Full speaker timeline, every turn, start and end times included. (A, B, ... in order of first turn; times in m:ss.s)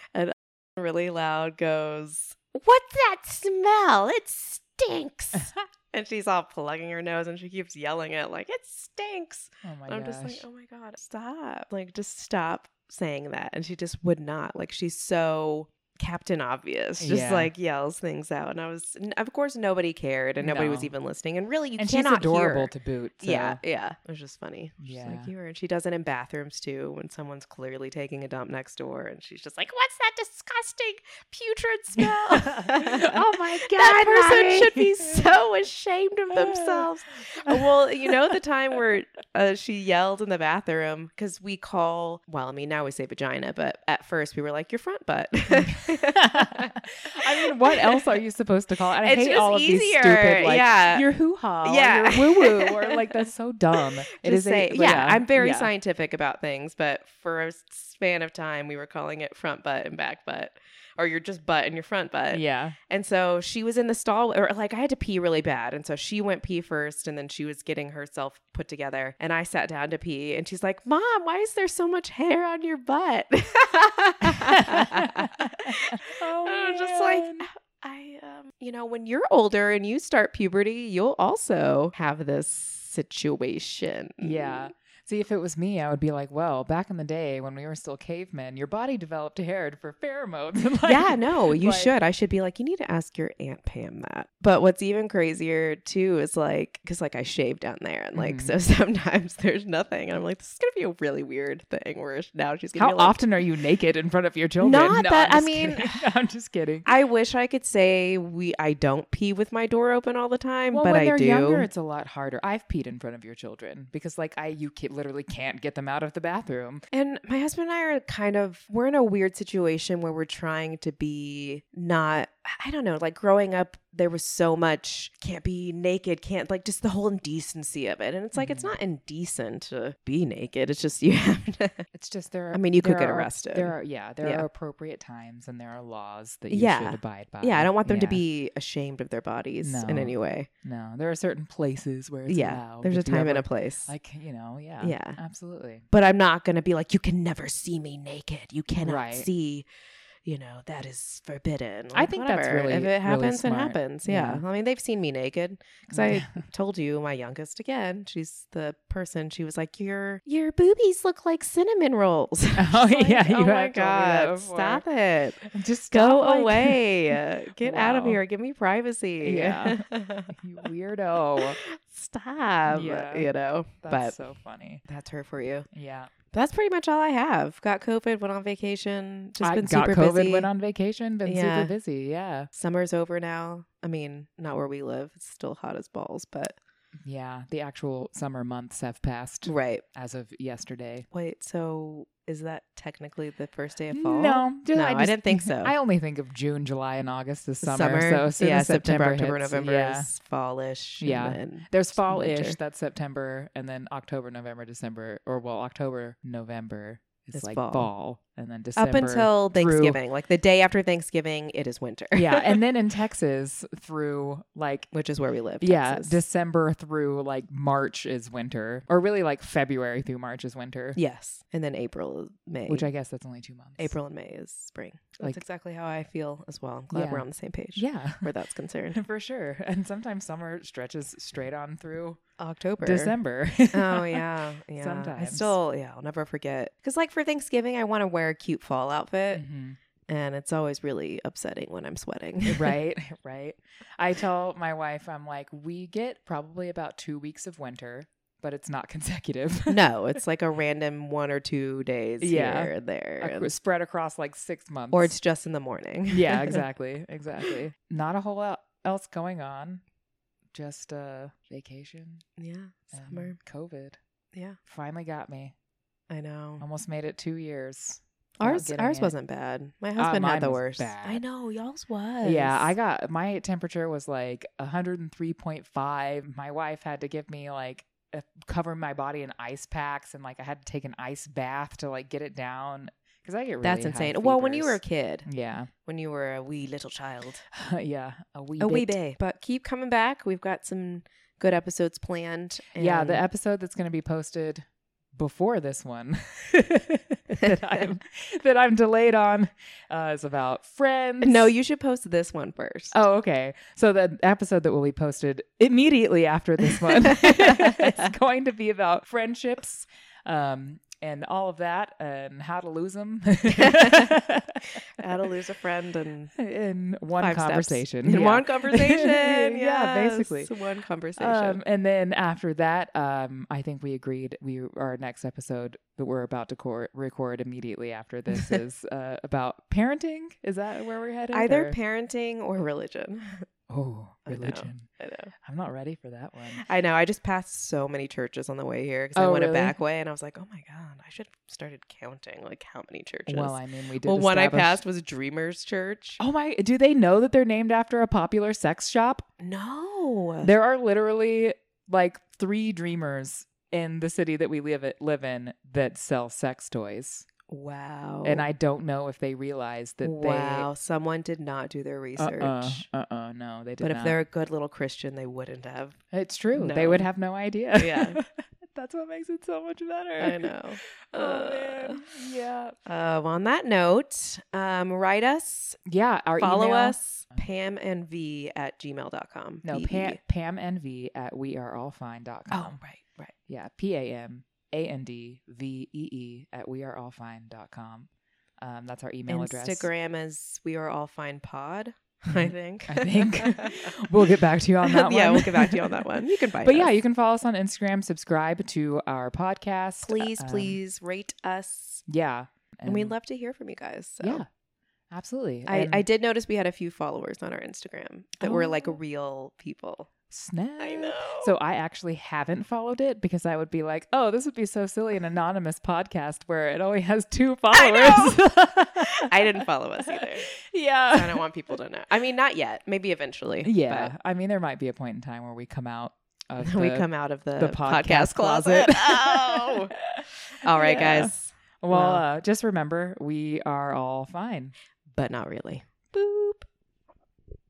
0:00.1-0:46.7 A
0:09.6-0:10.4 B
0:17.0-0:17.5 B
0:20.4-0:20.9 B
0:21.8-0:23.6 B
0:24.8-0:25.3 B
0:32.1-0:35.3 B
0:36.3-0:36.9 B
0:37.5-0:38.3 B
0:46.2-0:55.7 B
0:47.4-0:47.8 A
0:49.0-0:51.1 A
0:51.6-0:53.0 A
0:54.2-1:15.5 A
1:02.3-1:02.8 B
1:14.5-1:17.5 B
1:16.4-1:24.7 A
1:24.2-1:32.0 B
1:30.8-1:43.3 A
1:38.2-1:38.6 B
1:42.8-1:46.9 B
1:44.6-1:46.0 A
1:46.8-1:51.7 A
1:50.7-1:56.8 B
1:56.9-2:11.9 A
2:08.4-2:08.7 B
2:11.9-2:18.2 B
2:12.5-2:14.5 A
2:16.5-2:20.5 A
2:19.6-2:25.9 B
2:22.3-2:23.9 A
2:24.8-2:25.2 A
2:25.9-2:29.7 A
2:28.8-2:29.3 B
2:30.2-2:50.3 A
2:31.9-2:34.4 B
2:35.9-2:36.4 B
2:42.6-2:44.8 B
2:45.4-2:48.2 B
2:49.2-2:51.6 B
2:51.6-2:54.2 A
2:52.7-2:53.3 B
2:53.8-2:54.8 B
2:54.9-2:55.7 A
2:55.7-2:56.1 B
2:56.3-3:00.5 A
2:59.4-3:02.5 B
3:01.2-3:01.7 A
3:02.5-3:06.6 A
3:07.0-3:11.1 B
3:09.4-3:09.8 A
3:11.1-3:15.7 A
3:13.9-3:20.1 B
3:17.6-3:22.6 A
3:21.0-3:30.0 B
3:27.3-3:27.9 A
3:28.8-3:32.6 A
3:32.2-3:34.9 B
3:34.9-3:36.2 A
3:35.6-3:41.0 B
3:41.0-3:42.9 A
3:42.7-3:44.0 B
3:43.8-3:49.0 A
3:46.9-3:48.3 B
3:48.9-3:52.2 B
3:52.4-3:53.2 A
3:52.8-3:54.2 B
3:53.7-3:59.4 A
3:54.8-3:55.6 B
3:59.3-3:59.8 B
4:00.1-4:02.8 A
4:02.4-4:09.9 B
4:09.7-4:13.5 A
4:12.2-4:15.1 B
4:14.9-4:16.6 A
4:16.1-4:19.8 B
4:20.5-4:22.2 B
4:22.4-4:23.4 A
4:22.9-4:24.0 B
4:24.3-4:24.6 A
4:24.7-4:25.5 B
4:26.1-4:26.6 A
4:26.6-4:29.1 B
4:28.4-4:32.7 A
4:30.0-4:31.2 B
4:32.2-4:45.7 B
4:43.6-4:45.3 A
4:45.9-4:47.4 A
4:47.5-4:49.0 B
4:48.6-4:53.2 A
4:52.8-5:01.5 B
5:01.2-5:03.0 A
5:02.9-5:14.6 B
5:07.1-5:08.0 A
5:13.6-5:14.1 A
5:15.0-5:16.3 A
5:16.4-5:20.5 B
5:17.2-5:21.6 A
5:21.2-5:31.8 B
5:31.3-5:33.5 A
5:33.7-5:34.9 B
5:34.3-5:35.3 A
5:35.4-5:36.6 B
5:36.6-5:46.2 A
5:39.2-5:39.8 B
5:43.3-5:44.8 B
5:46.2-5:49.2 B
5:49.4-5:50.5 A
5:50.4-5:57.3 B
5:57.5-5:58.5 A
5:58.2-6:00.7 B
6:00.0-6:02.9 A
6:02.2-6:04.2 B
6:03.8-6:06.0 A
6:06.1-6:10.4 B
6:06.5-6:07.1 A
6:07.8-6:08.2 A
6:10.2-6:12.0 A
6:11.1-6:12.8 B
6:12.9-6:15.8 A
6:15.9-6:17.4 B
6:16.4-6:20.2 A
6:19.6-6:22.8 B
6:22.5-6:23.3 A
6:23.5-6:28.1 B
6:28.6-6:29.9 B
6:29.3-6:33.9 A
6:32.3-6:36.0 B
6:34.8-6:36.9 A
6:36.6-6:40.8 B
6:40.0-6:42.0 A
6:42.1-6:43.2 B
6:42.9-6:44.4 A
6:44.2-6:44.5 B
6:45.1-6:46.1 B
6:45.7-6:50.1 A
6:48.4-6:49.0 B
6:50.3-6:59.3 B
6:50.8-6:51.5 A
6:57.7-6:58.4 A
6:59.2-7:00.5 A
7:00.7-7:01.4 B
7:01.1-7:04.1 A
7:03.6-7:14.7 B
7:06.6-7:09.9 A
7:10.6-7:12.2 A
7:15.1-7:16.6 A